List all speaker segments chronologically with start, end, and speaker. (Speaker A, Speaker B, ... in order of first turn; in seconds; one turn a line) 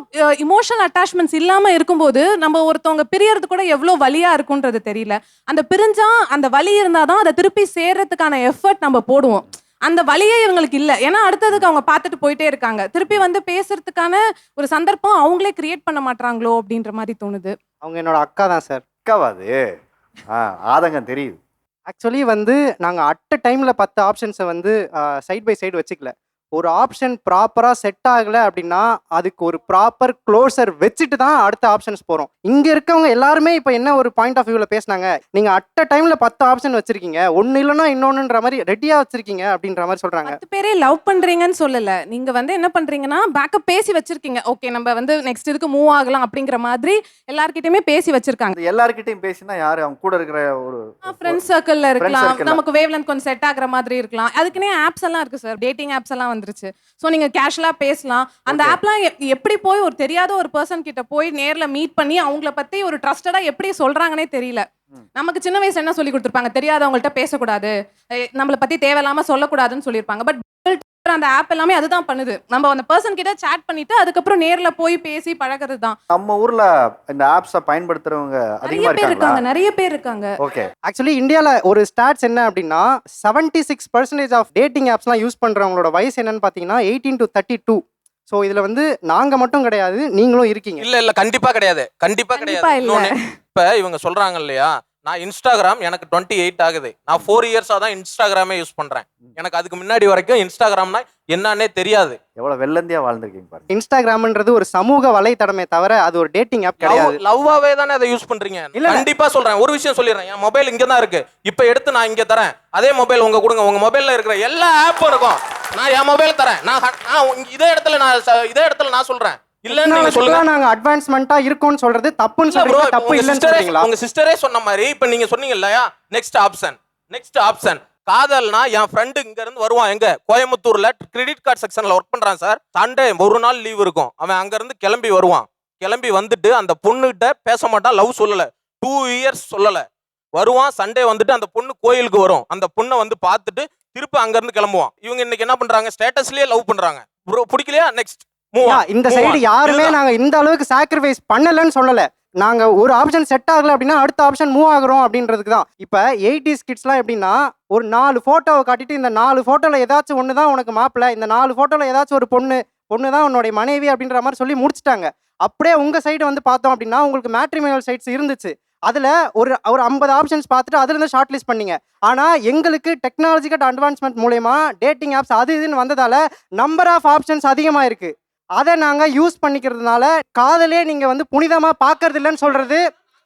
Speaker A: 0.4-17.5
Speaker B: 17.8-18.8
Speaker C: 19.1-19.6
Speaker C: 20.3-21.4
Speaker B: 21.9-40.4
Speaker A: 40.2-48.5
Speaker C: 48.6-51.4
Speaker A: 51.0-64.6
Speaker C: 52.0-52.6
Speaker C: 58.5-58.8
Speaker A: 65.1-67.7
Speaker A: 68.3-76.0
Speaker C: 76.1-79.4
Speaker A: 78.6-80.3
Speaker C: 80.4-80.7
Speaker B: 80.9-90.9
Speaker D: 90.8-102.2
Speaker A: 92.3-93.2
Speaker C: 102.4-103.7
Speaker B: 103.7-107.2
Speaker D: 106.8-120.4
Speaker B: 108.7-109.1
Speaker B: 119.7-123.9
Speaker D: 122.5-139.8
Speaker D: 140.3-149.9
Speaker B: 148.6-182.8